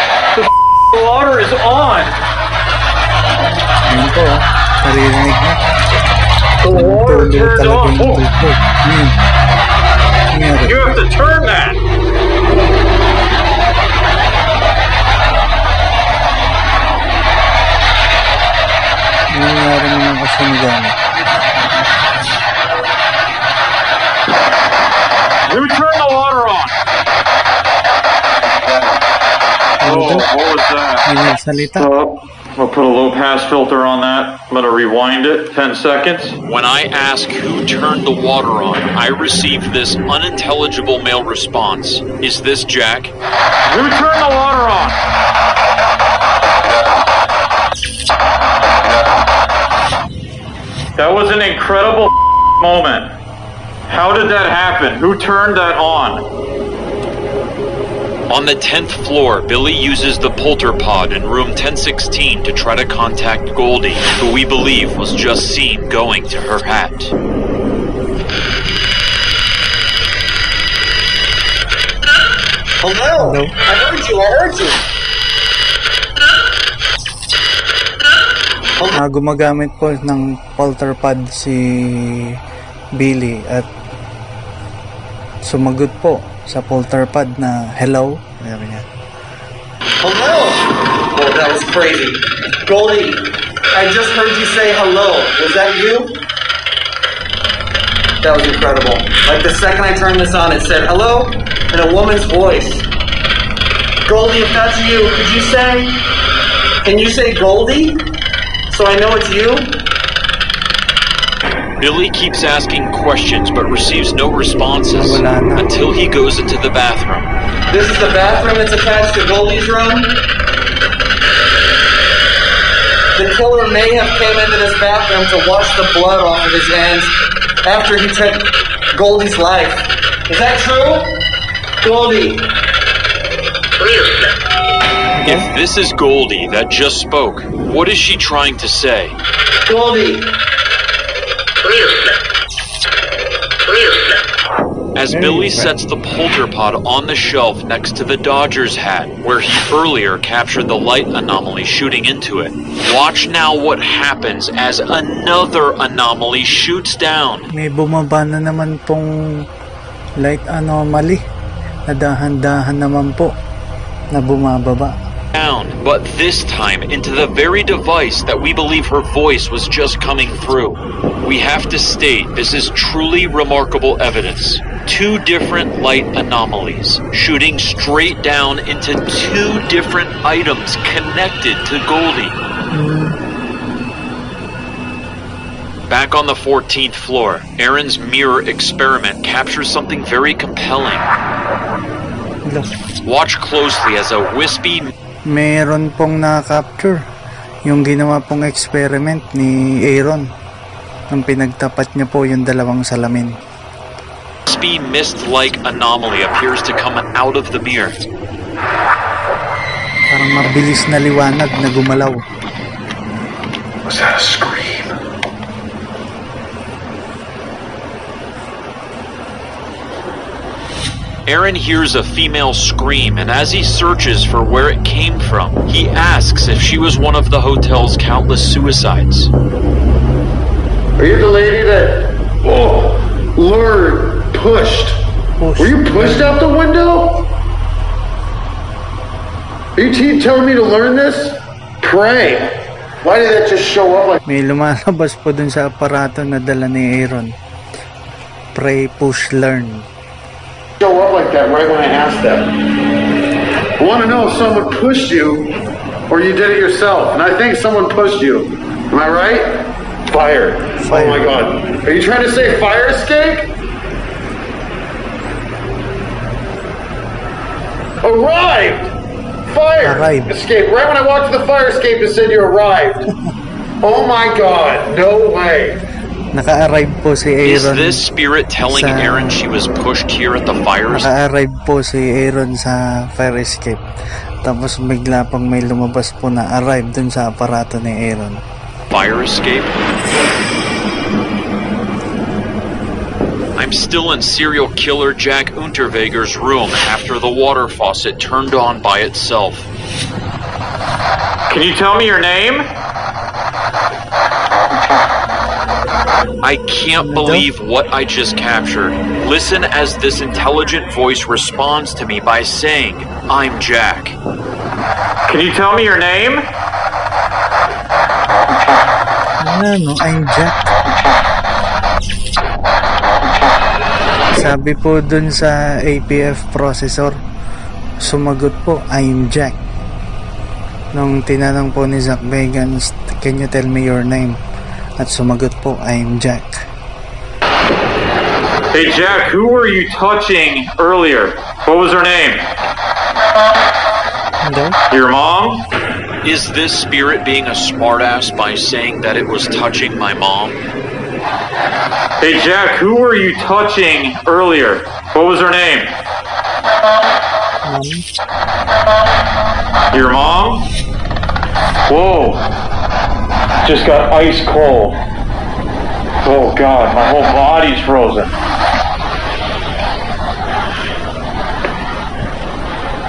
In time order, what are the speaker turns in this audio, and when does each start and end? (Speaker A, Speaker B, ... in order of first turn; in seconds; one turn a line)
Speaker A: 0.3-2.2
Speaker B: 3.9-5.6
Speaker A: 6.6-8.2
Speaker B: 6.6-9.1
Speaker B: 10.3-10.7
Speaker A: 10.6-11.8
Speaker B: 19.3-20.9
Speaker A: 25.4-26.7
Speaker B: 29.8-30.3
Speaker A: 29.8-31.0
Speaker B: 31.1-31.9
Speaker A: 31.7-36.4
Speaker C: 36.5-43.1
Speaker A: 43.6-45.0
Speaker A: 51.0-53.1
Speaker A: 53.9-56.2
Speaker C: 58.3-67.1
Speaker D: 72.8-74.8
Speaker B: 73.2-73.5
Speaker B: 78.9-82.3
Speaker B: 83.0-83.7
Speaker B: 85.4-88.8
Speaker D: 90.0-96.2
Speaker D: 98.2-102.9
Speaker D: 104.0-106.0
Speaker D: 106.8-108.0
Speaker D: 108.7-109.8
Speaker C: 111.8-117.3
Speaker B: 114.9-115.7
Speaker D: 117.7-120.2
Speaker D: 123.1-127.1
Speaker D: 127.6-131.2
Speaker D: 131.8-132.5
Speaker B: 135.1-135.5
Speaker C: 135.2-139.2
Speaker D: 139.6-140.3
Speaker C: 144.9-157.5
Speaker B: 145.1-145.7
Speaker B: 157.5-159.5
Speaker B: 160.2-161.2
Speaker B: 161.9-163.3
Speaker B: 164.1-164.9
Speaker C: 165.3-182.4
Speaker B: 182.7-183.2
Speaker C: 185.9-191.1
Speaker B: 192.4-192.7
Speaker C: 193.0-194.9
Speaker B: 195.3-197.0
Speaker B: 197.7-200.2
Speaker B: 201.1-203.3
Speaker C: 204.5-208.0
Speaker B: 210.1-212.2
Speaker E: 213.8-214.9
Speaker C: 221.2-229.3
Speaker E: 231.0-235.0
Speaker B: 235.4-236.4
Speaker E: 235.6-237.3
Speaker E: 239.8-244.2
Speaker B: 244.2-247.3
Speaker B: 248.5-249.9
Speaker E: 250.8-252.6
Speaker E: 253.8-255.5
Speaker E: 256.1-263.5
Speaker B: 260.8-261.3
Speaker E: 268.0-268.9
Speaker E: 269.5-273.1
Speaker B: 269.8-270.3
Speaker E: 273.8-275.8
Speaker B: 276.3-278.0
Speaker C: 277.4-281.1
Speaker B: 278.6-279.4
Speaker B: 280.9-283.8
Speaker B: 284.4-288.4
Speaker C: 288.9-289.8
Speaker C: 293.6-299.7
Speaker A: 301.5-302.7
Speaker C: 306.4-314.2
Speaker B: 307.0-307.4
Speaker A: 315.3-316.5
Speaker B: 319.4-320.7
Speaker B: 324.3-327.2
Speaker B: 328.0-329.6
Speaker B: 330.9-334.4
Speaker B: 335.0-336.6
Speaker A: 338.7-342.5
Speaker B: 344.4-344.8
Speaker A: 344.9-345.6
Speaker C: 346.2-350.6
Speaker A: 352.2-355.9
Speaker B: 357.6-358.0
Speaker A: 359.9-360.6
Speaker A: 361.9-362.4
Speaker A: 363.6-365.0
Speaker A: 366.2-368.3